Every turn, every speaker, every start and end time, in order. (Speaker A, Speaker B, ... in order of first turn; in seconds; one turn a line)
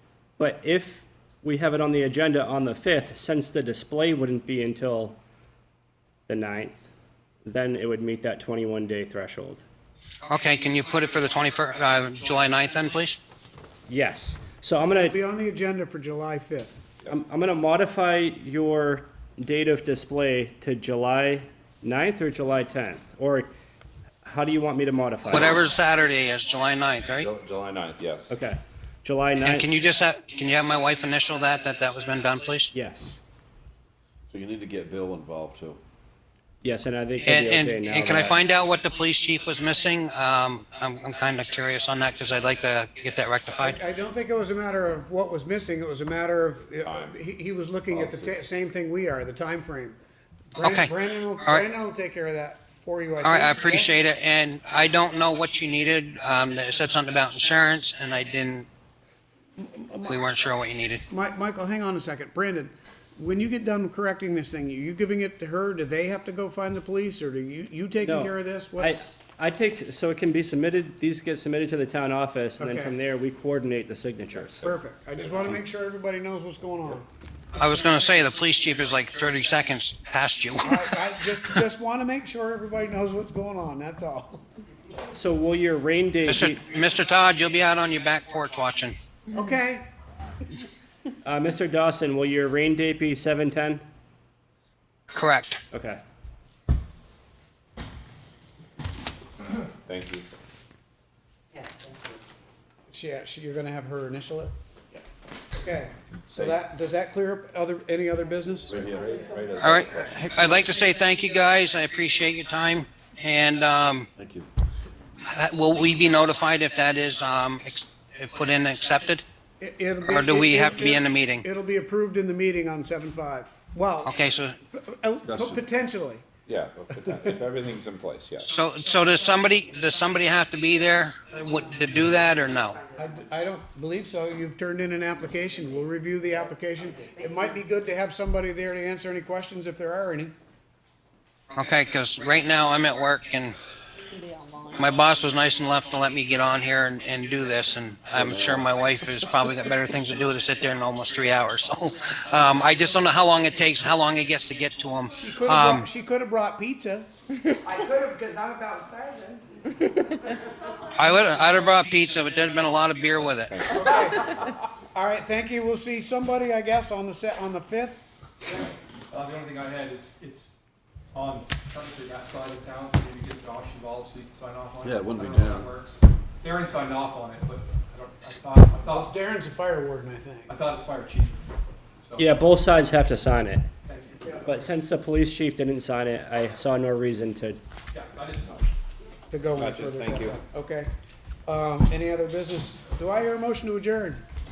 Speaker A: 0.4-5.2
Speaker A: 6.3-6.8
Speaker A: 7.4-9.6
Speaker B: 10.3-13.2
Speaker A: 13.9-15.2
Speaker C: 14.9-16.8
Speaker A: 17.1-23.5
Speaker A: 24.2-25.6
Speaker B: 25.3-27.3
Speaker D: 27.2-28.3
Speaker A: 28.3-29.7
Speaker B: 29.4-32.7
Speaker A: 32.7-33.2
Speaker E: 34.3-35.8
Speaker A: 36.6-38.4
Speaker B: 37.2-43.8
Speaker C: 43.5-50.0
Speaker D: 46.8-47.2
Speaker D: 47.9-48.3
Speaker C: 50.5-53.9
Speaker B: 50.6-51.7
Speaker B: 53.2-58.7
Speaker C: 59.5-60.4
Speaker B: 60.0-61.0
Speaker C: 61.1-69.1
Speaker A: 68.0-74.6
Speaker C: 72.6-72.9
Speaker D: 74.6-75.6
Speaker C: 74.6-77.0
Speaker B: 77.5-81.0
Speaker C: 80.6-84.4
Speaker A: 85.1-86.6
Speaker B: 86.2-88.9
Speaker C: 89.3-89.9
Speaker A: 91.2-93.8
Speaker B: 95.1-95.6
Speaker A: 95.7-96.0
Speaker D: 99.8-100.2
Speaker F: 101.5-102.2
Speaker C: 102.9-104.5
Speaker C: 105.6-108.8
Speaker D: 106.3-106.6
Speaker D: 108.7-110.6
Speaker E: 108.7-109.1
Speaker F: 109.1-109.5
Speaker B: 109.6-114.1
Speaker E: 114.2-114.5
Speaker B: 115.2-119.2
Speaker C: 119.6-124.2
Speaker B: 120.0-121.5
Speaker B: 124.0-124.6
Speaker C: 124.7-126.2
Speaker E: 125.2-125.7
Speaker D: 126.5-128.5
Speaker C: 126.9-127.3
Speaker B: 128.4-132.8
Speaker F: 131.6-133.1
Speaker C: 132.9-140.3
Speaker F: 136.9-137.7
Speaker B: 141.5-143.5
Speaker B: 144.7-155.9
Speaker E: 148.1-148.7
Speaker C: 155.2-157.1
Speaker F: 157.6-161.5
Speaker B: 160.9-163.8
Speaker D: 163.5-164.3
Speaker C: 163.7-164.3
Speaker F: 163.7-164.4
Speaker C: 164.9-168.1
Speaker G: 169.1-170.5
Speaker G: 171.1-179.1
Speaker E: 174.8-175.7
Speaker C: 178.8-180.6
Speaker G: 180.5-182.4
Speaker A: 182.2-183.6
Speaker G: 183.8-184.4
Speaker A: 184.4-187.6
Speaker G: 187.9-188.7
Speaker C: 189.3-190.9
Speaker D: 189.6-190.3
Speaker C: 191.5-194.2